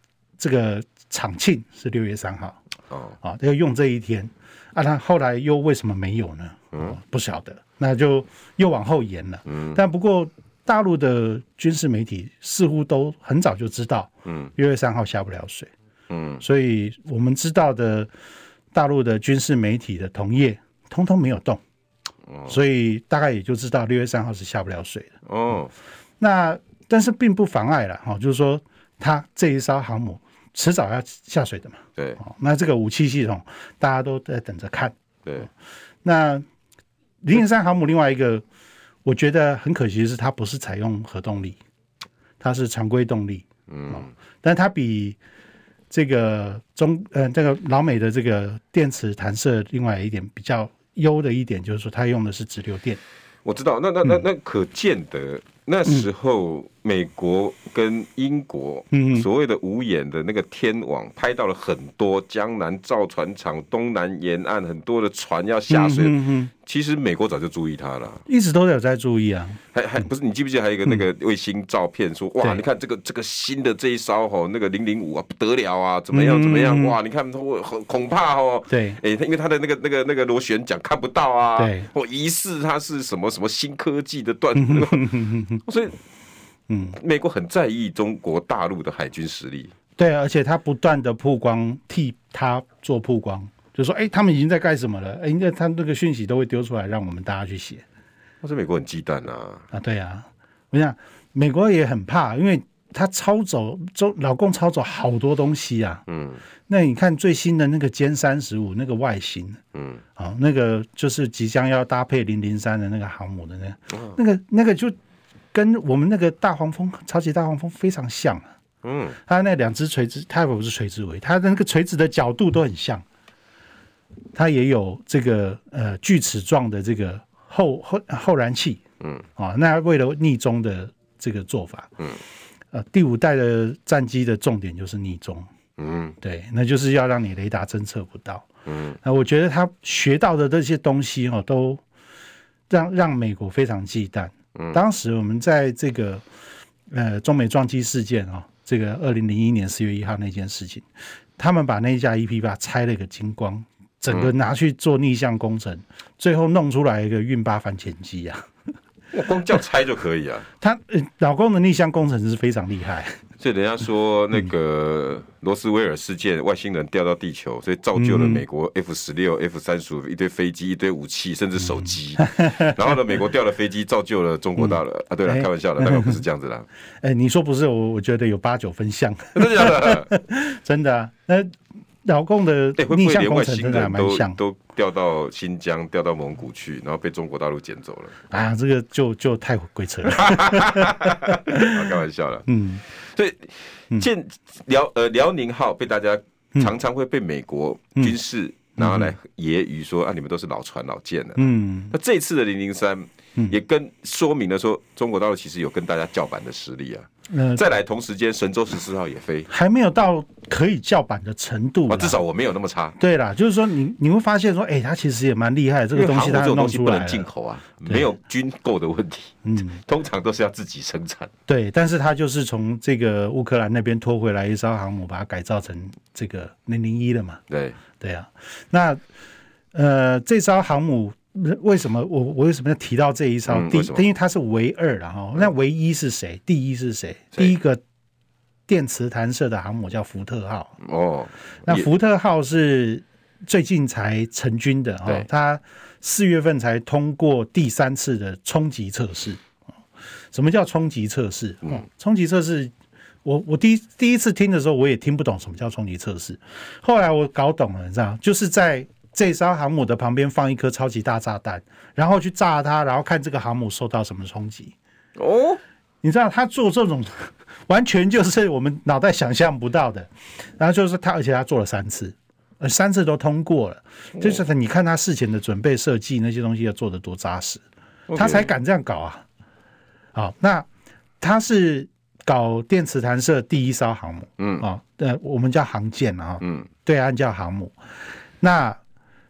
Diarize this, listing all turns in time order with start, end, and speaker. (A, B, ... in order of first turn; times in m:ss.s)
0:00.4-0:02.6 A
0:02.9-0:03.2 B
0:03.2-0:15.7 A
0:09.5-0:09.8 B
0:14.2-0:14.5 B
0:16.1-0:16.4 B
0:16.4-0:18.1 A
0:18.7-0:21.6 A
0:22.3-0:22.6 B
0:22.5-0:25.1 A
0:25.3-0:25.7 B
0:26.2-0:35.5 A
0:36.0-0:36.4 A
0:37.2-0:38.4 A
0:39.0-0:41.6 A
0:42.4-0:45.2 A
0:43.7-0:44.1 B
0:45.9-0:53.0 A
0:53.4-1:08.2 B
0:58.9-0:59.3 A
1:05.7-1:06.5 A
1:08.3-1:09.6 A
1:09.7-1:26.0 B
1:16.1-1:17.0 A
1:18.7-1:19.0 A
1:21.6-1:21.9 A
1:24.6-1:25.6 A
1:26.7-1:27.0 A
1:26.9-1:29.7 B
1:30.0-1:37.8 A
1:38.4-1:39.7 B
1:39.7-1:46.0 A
1:46.1-1:46.4 B
1:46.7-1:49.6 A
1:49.8-1:50.0 B
1:50.2-1:55.0 A
1:53.9-1:54.2 B
1:55.5-1:58.5 A
1:58.8-1:59.2 B
1:59.3-2:03.0 A
2:04.4-2:08.8 A
2:09.4-2:11.9 A
2:12.7-2:15.5 A
2:15.8-2:16.2 B
2:16.2-2:18.5 A
2:18.7-2:19.0 B
2:19.0-2:21.8 A
2:22.7-2:26.2 A
2:26.9-2:30.9 A
2:31.4-2:38.4 A
2:39.1-2:40.5 B
2:40.6-2:43.2 A
2:43.4-2:56.7 B
2:48.0-2:48.4 A
2:51.8-2:52.7 A
2:55.3-2:56.2 A
2:57.0-3:01.5 A
2:59.4-3:00.1 B
3:02.0-3:04.4 A
3:02.8-3:08.2 B
3:08.3-3:11.8 A
3:10.1-3:29.5 B
3:12.5-3:12.8 A
3:18.8-3:19.1 A
3:21.4-3:21.9 A
3:27.3-3:27.6 A
3:29.5-3:32.2 A
3:31.9-3:33.0 B
3:33.0-3:37.3 A
3:35.9-3:41.3 B
3:39.4-3:39.8 A
3:41.5-3:47.4 A
3:47.5-3:47.8 B
3:48.0-3:49.0 A
3:49.7-3:57.8 A
3:53.5-3:54.1 B
3:58.7-4:00.8 A
4:00.8-4:01.9 B
4:01.7-4:09.4 A
4:10.3-4:12.7 A
4:13.2-4:24.8 A
4:25.2-4:25.6 B
4:26.0-4:37.6 A
4:38.1-4:38.5 B
4:38.2-4:39.2 A
4:40.2-4:40.7 A
4:41.2-4:47.8 A
4:44.4-4:44.6 B
4:46.4-4:46.7 B
4:48.4-4:48.8 A